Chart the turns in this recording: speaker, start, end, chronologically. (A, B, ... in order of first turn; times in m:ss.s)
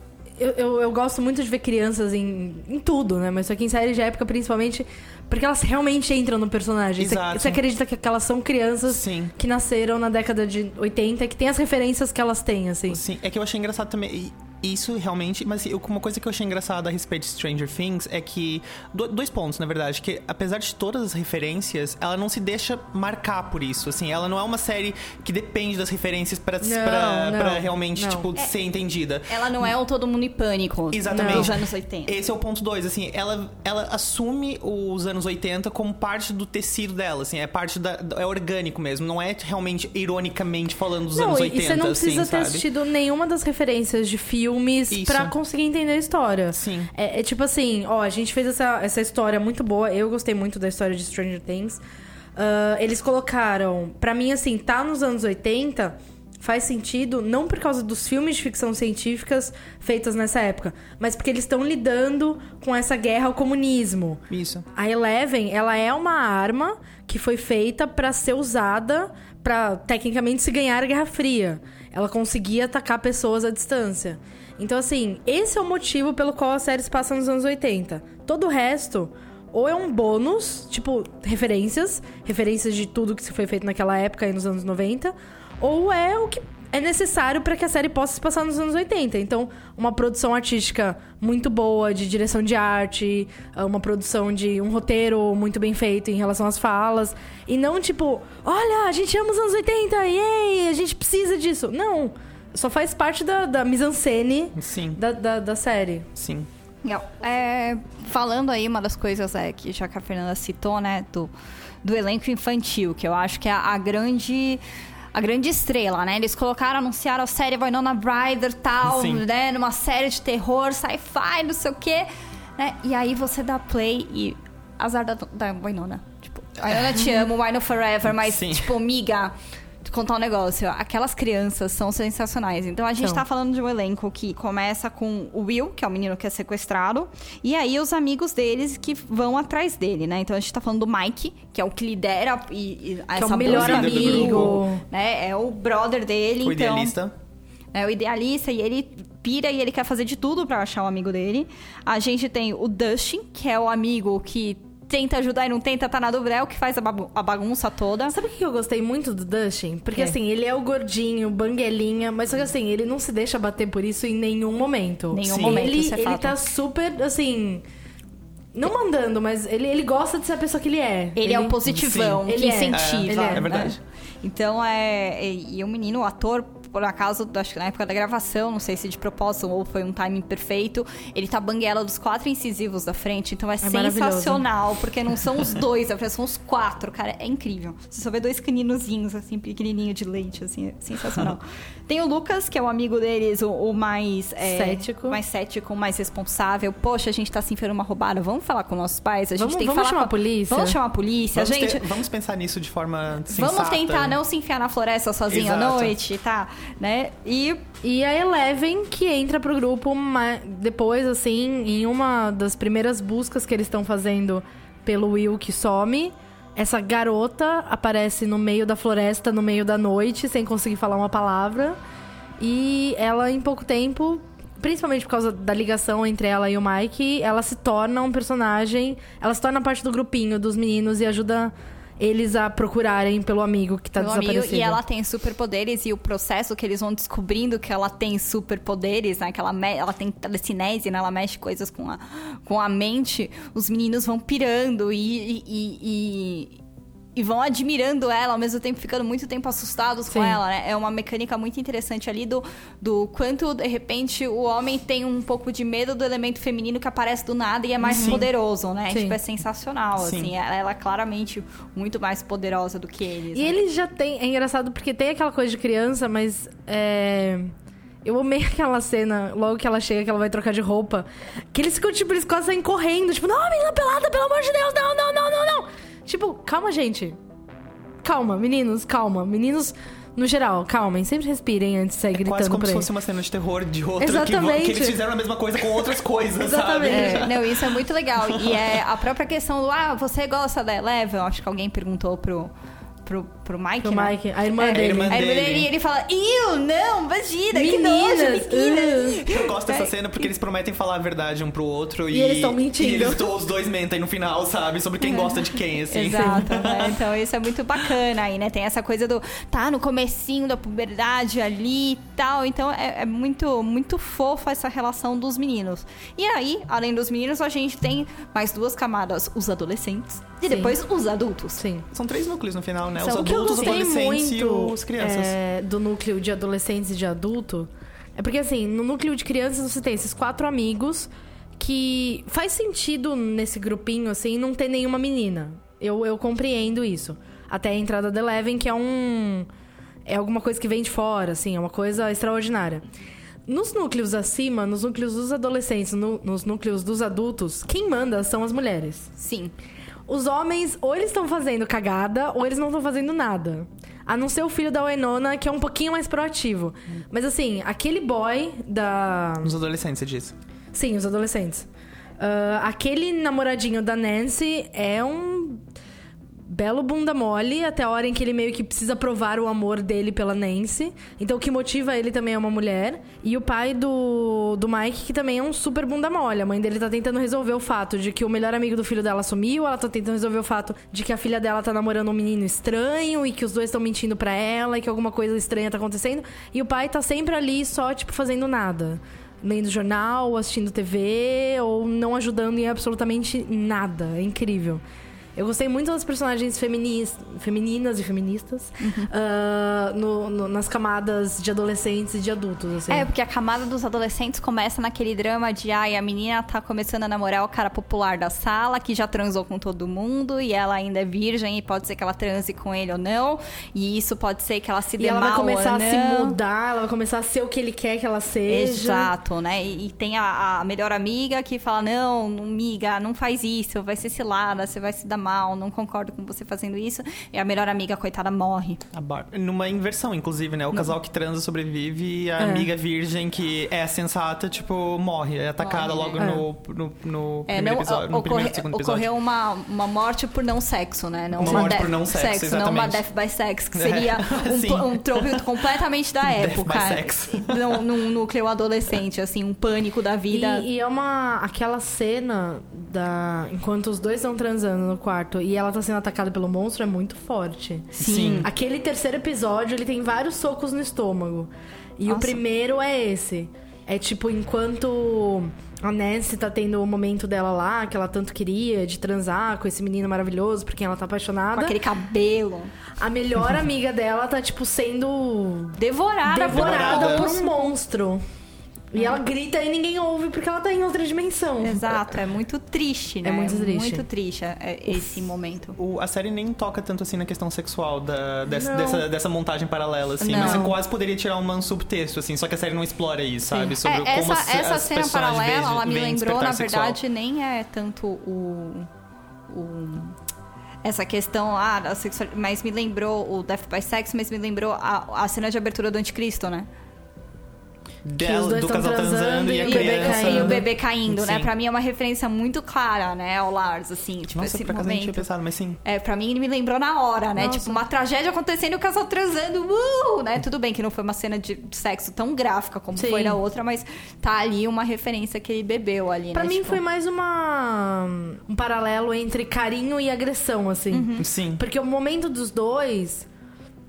0:00.4-0:13.0 A
0:07.0-0:07.6 B
0:08.9-0:09.3 B
0:12.9-0:29.7 B
0:26.6-0:28.3 A
0:29.3-0:32.1 C
0:30.9-0:42.6 B
0:31.1-0:31.5 A
0:41.1-0:51.8 A
0:44.9-0:45.3 B
0:46.5-0:46.9 B
0:52.4-1:04.2 A
1:04.3-1:04.7 B
1:04.8-1:46.1 A
1:44.6-1:45.0 B
1:46.2-1:46.5 B
1:46.8-1:51.3 C
1:51.8-1:54.6 C
1:55.1-2:27.0 C
1:58.8-1:59.2 B
2:06.6-2:07.0 B
2:08.1-2:08.8 B
2:23.2-2:24.8 A
2:23.4-2:24.7 B
2:26.4-2:27.1 B
2:27.7-2:38.2 C
2:38.1-2:47.6 A
2:45.1-2:46.4 C
2:45.3-2:45.7 B
2:48.6-2:51.6 A
2:51.2-3:21.9 C
2:51.7-2:53.8 B
2:52.3-2:53.4 A
3:03.6-3:04.4 A
3:14.4-3:15.2 A
3:19.4-3:20.8 A
3:21.4-3:24.2 B
3:23.3-3:27.6 C
3:25.3-3:26.0 B
3:27.8-3:41.8 A
3:42.4-3:54.8 A
3:54.0-4:06.6 C
4:07.2-4:23.6 C
4:10.1-4:10.4 A
4:17.8-4:18.3 A
4:17.9-4:18.2 B
4:18.9-4:19.2 A
4:20.0-4:20.3 B
4:23.3-4:27.5 A
4:28.0-4:37.2 A
4:38.0-4:42.9 A
4:42.2-4:47.5 B
4:44.0-4:45.0 A
4:46.4-4:47.3 A
4:46.9-4:52.5 C
4:48.3-4:48.7 B
4:53.0-4:59.9 C
4:53.8-4:55.2 A
4:54.7-4:55.7 B
4:57.5-4:59.2 A
4:59.3-5:07.0 B
5:02.1-5:03.3 A
5:05.0-5:05.3 C
5:05.9-5:21.6 C
5:06.1-5:06.4 A
5:20.5-5:20.8 A
5:21.6-5:21.9 A
5:21.9-5:25.3 B
5:23.0-5:39.5 A
5:40.1-5:42.8 A
5:43.5-5:49.1 A
5:49.2-5:49.5 C
5:50.1-5:59.5 A
5:59.4-6:00.3 B
6:00.7-6:01.7 A
6:02.2-6:05.6 A
6:06.5-6:34.8 A
6:35.4-6:43.1 A
6:38.8-6:39.1 C
6:42.9-6:56.4 C
6:55.0-6:59.1 A
6:58.5-7:08.8 C
7:08.9-7:19.1 B
7:12.4-7:12.7 A
7:15.6-7:16.2 C
7:16.2-7:16.4 A
7:17.5-7:30.6 C
7:21.4-7:23.0 B
7:21.4-7:21.7 A
7:23.8-7:25.4 B
7:26.3-7:27.8 B
7:30.3-7:51.8 A
7:38.0-7:38.5 C
7:38.0-7:38.5 B
7:42.1-7:42.4 C
7:51.6-7:52.7 C
7:53.0-7:58.2 A
7:55.8-7:57.5 C
7:56.5-7:57.3 B
7:58.9-8:02.1 A
8:01.6-8:05.8 C
8:03.2-8:04.0 A
8:05.8-8:17.0 B
8:08.5-8:09.0 A
8:10.2-8:10.7 C
8:10.3-8:10.8 A
8:13.5-8:18.9 C
8:19.5-8:20.2 C
8:20.8-8:26.7 C
8:28.0-8:31.5 B
8:28.2-8:30.6 A
8:29.6-8:35.3 C
8:34.3-8:35.8 B
8:35.8-8:46.8 C
8:37.4-8:37.8 A
8:42.9-8:43.4 A
8:46.3-8:53.3 A
8:50.9-8:51.2 C
8:51.2-8:51.6 B